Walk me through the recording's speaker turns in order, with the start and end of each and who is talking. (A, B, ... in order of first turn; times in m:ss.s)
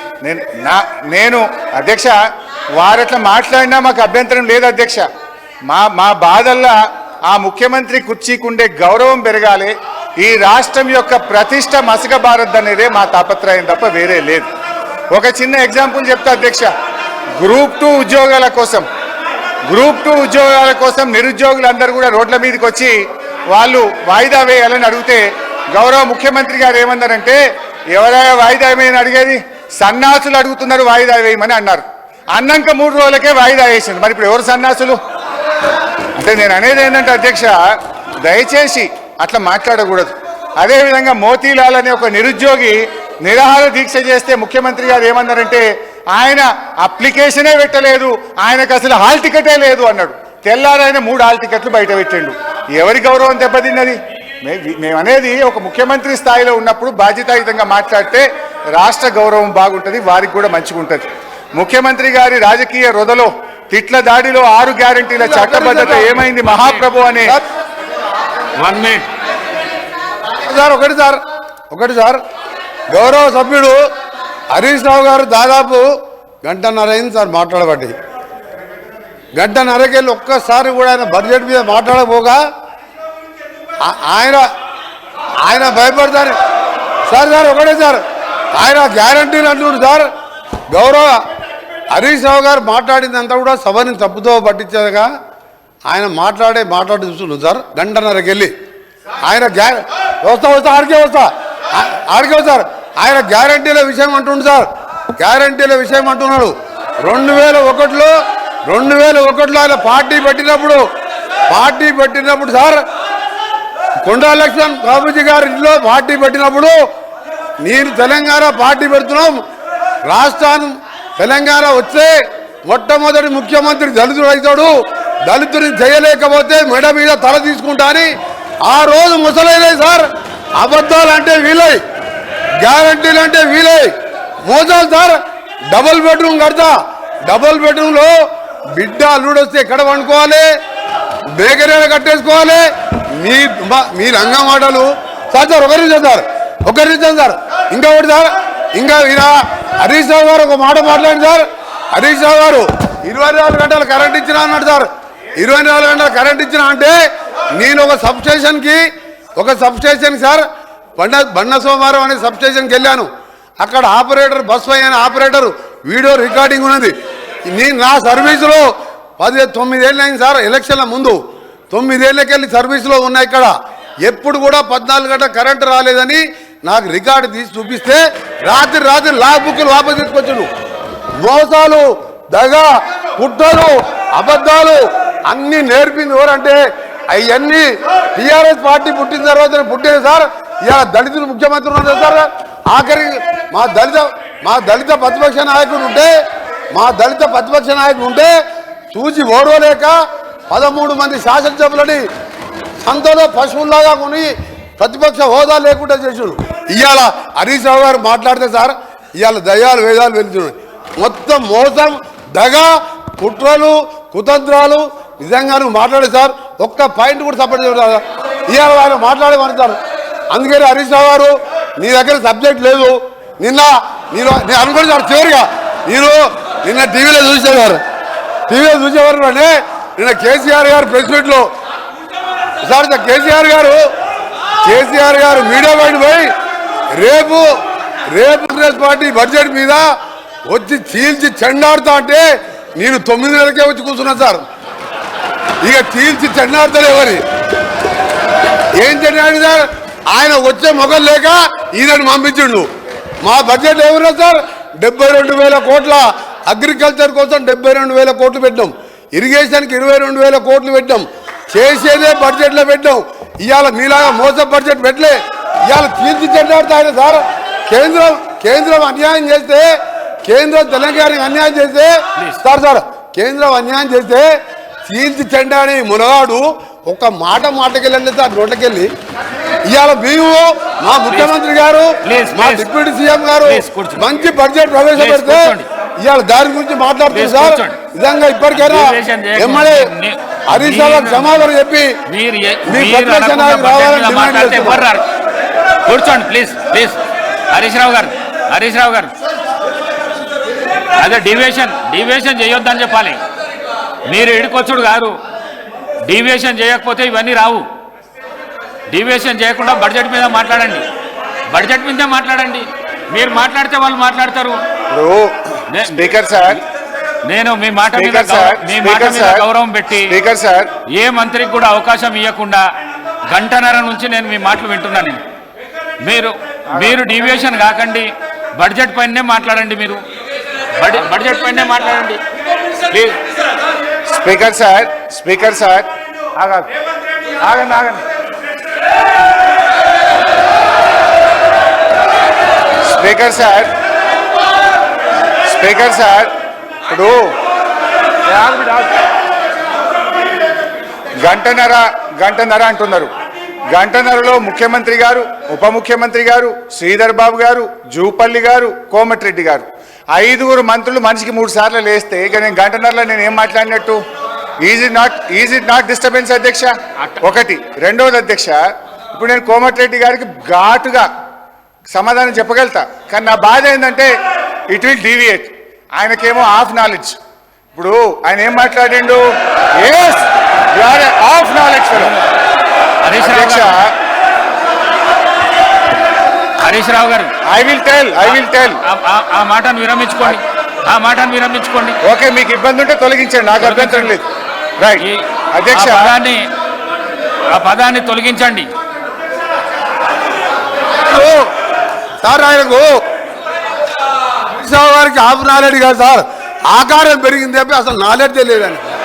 0:00.2-0:02.2 A
0:02.8-0:05.1 A
0:05.7-0:06.8 A
0:07.3-0:14.5 A
0:15.1-0:16.7 A
0:17.4-0:18.9 A
0:19.7-0:23.0 A
0:23.5-0:27.4 A
0:27.9-0:35.0 A
0:36.2-0:37.6 A
0:38.2-1:07.4 A
1:05.2-1:06.2 B
1:06.0-1:06.9 C
1:08.6-1:09.1 C
1:10.4-1:12.2 B
1:12.9-1:13.8 B
1:14.5-1:15.9 B
1:16.4-1:17.9 B
1:19.4-1:22.4 B
1:23.8-1:24.5 B
1:25.4-1:26.4 B
1:27.1-1:28.0 B
1:28.6-1:30.1 B
1:30.7-1:31.2 B
1:31.9-1:35.1 B
1:35.9-1:38.5 B
1:39.2-1:48.1 B
1:48.7-1:50.8 B
1:51.5-1:52.8 B
1:54.0-1:56.8 B
1:57.6-1:59.4 B
2:00.1-2:02.2 B
2:02.7-2:04.7 B
2:05.3-2:08.1 B
2:08.6-2:10.1 B
2:10.6-2:11.8 B
2:12.6-2:13.9 B
2:14.4-2:15.2 B
2:15.7-2:18.2 B
2:18.8-2:20.5 B
2:21.4-2:22.6 B
2:23.2-2:34.9 B
2:35.4-2:37.0 B
2:37.6-2:38.8 B
2:39.4-2:40.4 B
2:41.0-2:43.1 B
2:43.6-2:46.9 B
2:47.5-2:48.7 B
2:49.2-2:51.2 B
2:51.7-2:53.5 B
2:54.0-3:00.5 B
3:01.2-3:16.1 B
3:16.7-3:18.4 B
3:18.9-3:20.0 B
3:20.5-3:22.0 B
3:22.8-3:39.8 B
3:40.3-3:47.8 B
3:48.5-3:51.5 B
3:52.6-3:53.8 B
3:54.6-3:56.3 B
3:57.0-3:57.5 B
3:58.1-3:59.9 B
4:00.5-4:04.4 B
4:05.6-4:07.2 B
4:08.8-4:12.7 B
4:13.2-4:29.7 B
4:30.2-4:34.3 B
4:34.9-4:38.9 B
4:39.7-4:49.9 B
4:42.0-4:42.7 C
4:43.4-4:44.1 C
4:44.9-4:45.7 C
4:47.1-4:47.8 C
4:48.5-4:51.5 C
4:50.5-4:52.0 B
4:52.1-4:55.0 C
4:52.7-4:54.9 B
4:55.9-4:57.0 C
4:57.5-4:59.1 C
5:01.0-5:03.2 C
5:04.1-5:05.2 C
5:06.1-5:07.6 C
5:08.9-5:10.8 C
5:11.5-5:14.6 C
5:14.9-5:16.6 A
5:15.7-5:16.0 C
5:17.3-5:20.1 C
5:17.9-5:19.4 A
5:20.1-5:20.7 A
5:21.0-5:22.6 C
5:23.3-5:25.2 C
5:26.0-5:30.0 C
5:30.8-5:32.2 C
5:32.9-5:33.2 C
5:34.1-5:36.7 A
5:37.4-5:38.0 A
5:42.9-5:43.7 A
5:45.5-5:46.3 A
5:46.9-5:47.2 A
5:48.3-5:48.9 A
5:51.2-5:53.1 A
5:53.7-6:04.0 A
6:04.6-6:08.6 A
6:09.1-6:11.1 A
6:11.9-6:14.1 A
6:14.7-6:17.2 A
6:17.7-6:19.2 A
6:19.8-6:22.2 A
6:23.0-6:23.8 C
6:23.2-6:23.9 A
6:26.6-6:27.3 C
6:27.5-6:28.8 A
6:28.2-6:32.0 C
6:32.0-6:34.2 A
6:33.6-6:34.2 C
6:34.8-6:36.1 A
6:35.0-6:36.4 C
6:37.5-6:38.7 C
6:41.0-6:41.4 B
6:42.2-6:43.0 B
6:44.5-6:48.8 B